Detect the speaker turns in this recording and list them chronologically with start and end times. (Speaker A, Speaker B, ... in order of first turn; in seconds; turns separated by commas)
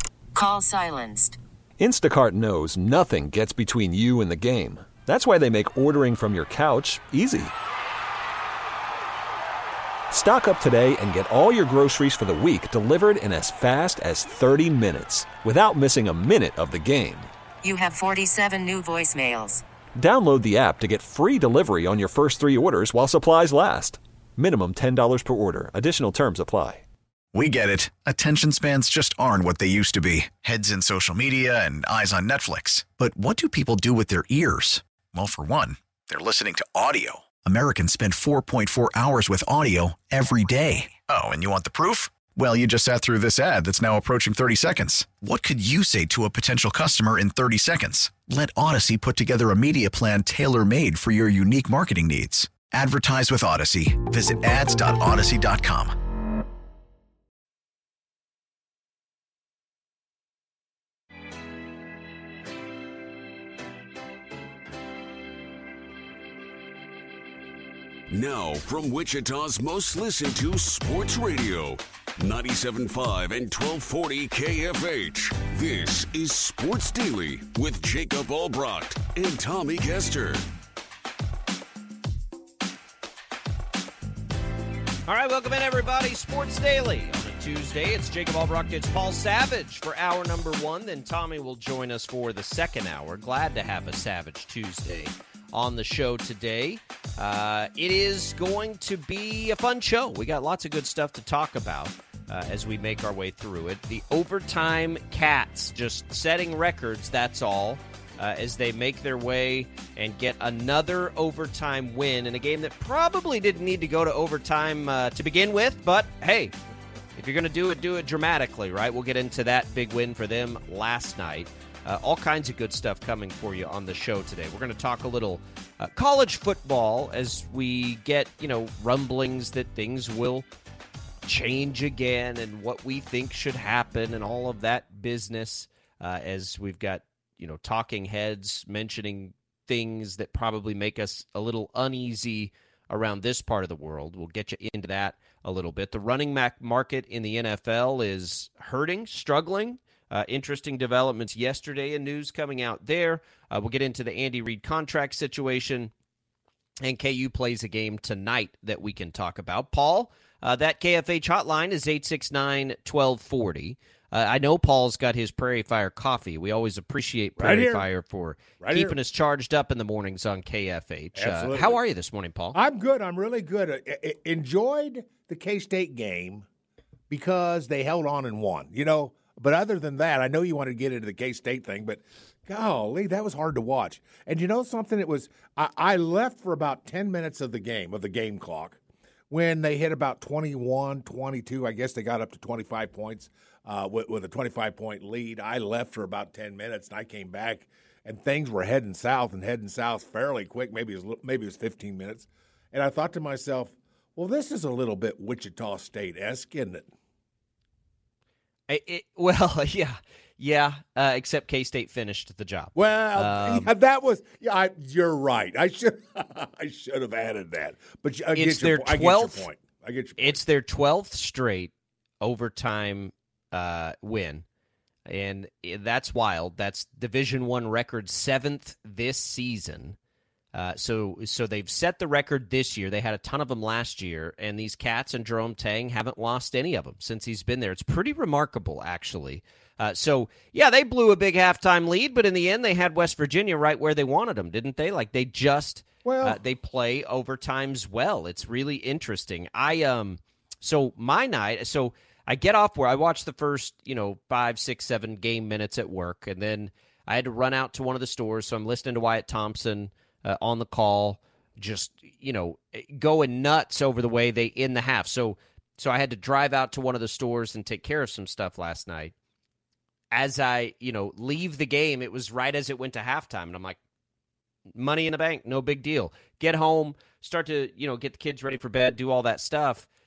Speaker A: 0.3-1.4, Speaker B: 1.8-7.5, Speaker B: 10.1-17.3, Speaker A: 17.6-19.6, Speaker B: 20.0-26.8, Speaker C: 27.3-56.0, Speaker D: 68.1-80.4, Speaker E: 85.1-116.5, Speaker E: 117.2-130.5, Speaker E: 131.2-155.9, Speaker E: 156.8-172.6, Speaker F: 167.4-167.9, Speaker F: 168.6-169.0, Speaker F: 171.2-171.8, Speaker F: 172.5-176.5, Speaker F: 177.1-188.8, Speaker F: 189.3-206.9, Speaker E: 208.7-213.7, Speaker F: 212.8-220.4, Speaker E: 218.3-219.5, Speaker E: 220.2-224.4, Speaker E: 225.1-230.0, Speaker E: 230.5-269.1, Speaker F: 246.0-246.4, Speaker E: 270.1-273.8, Speaker E: 274.7-279.9